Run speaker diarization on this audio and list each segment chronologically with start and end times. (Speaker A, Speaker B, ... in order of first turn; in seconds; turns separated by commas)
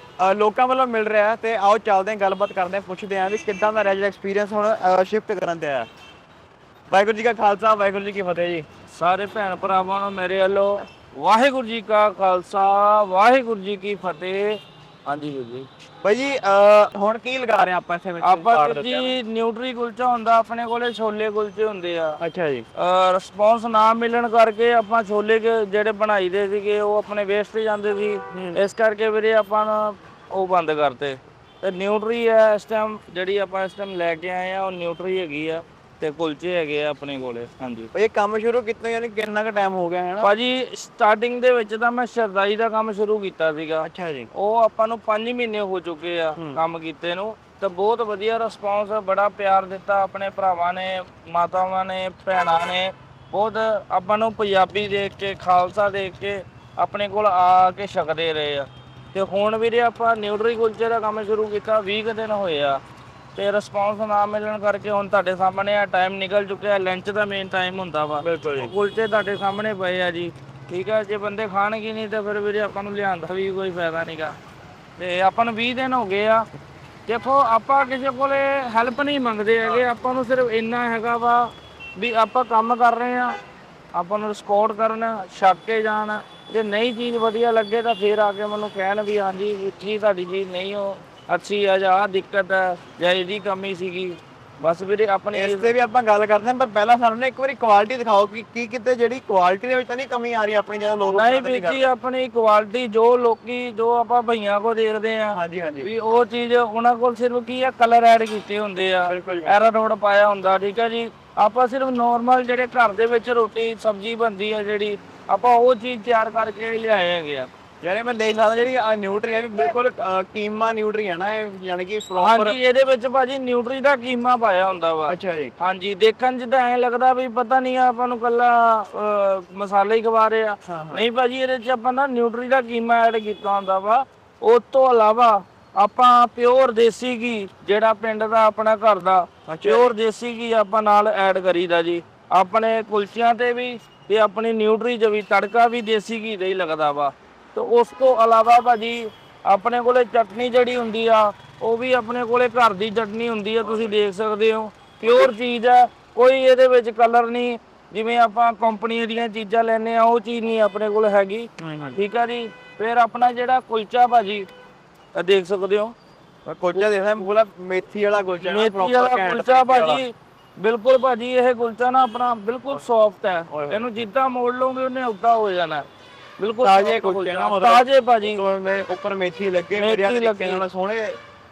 Speaker A: 0.2-5.9, Speaker A: 6.9-8.7, Speaker B: 8.9-15.7, Speaker A: 16.0-19.1, Speaker B: 18.2-22.2, Speaker A: 22.2-22.6, Speaker B: 22.7-37.9, Speaker A: 28.3-28.6, Speaker A: 37.9-40.3, Speaker B: 40.2-62.8, Speaker A: 43.8-44.3, Speaker B: 63.4-74.3, Speaker A: 68.2-68.7, Speaker B: 75.0-76.5, Speaker B: 77.1-83.3, Speaker B: 83.9-95.7, Speaker A: 95.3-101.8, Speaker B: 101.1-117.5, Speaker A: 105.3-105.9, Speaker A: 109.1-109.5, Speaker A: 117.8-122.5, Speaker B: 122.2-164.5, Speaker A: 125.1-125.5, Speaker A: 130.6-131.0, Speaker A: 139.5-139.9, Speaker A: 155.0-155.3, Speaker A: 161.6-162.0, Speaker B: 165.1-165.9, Speaker A: 166.4-170.0, Speaker B: 168.4-175.8, Speaker A: 173.5-173.8, Speaker B: 176.4-178.4, Speaker A: 176.6-181.2, Speaker B: 179.8-180.6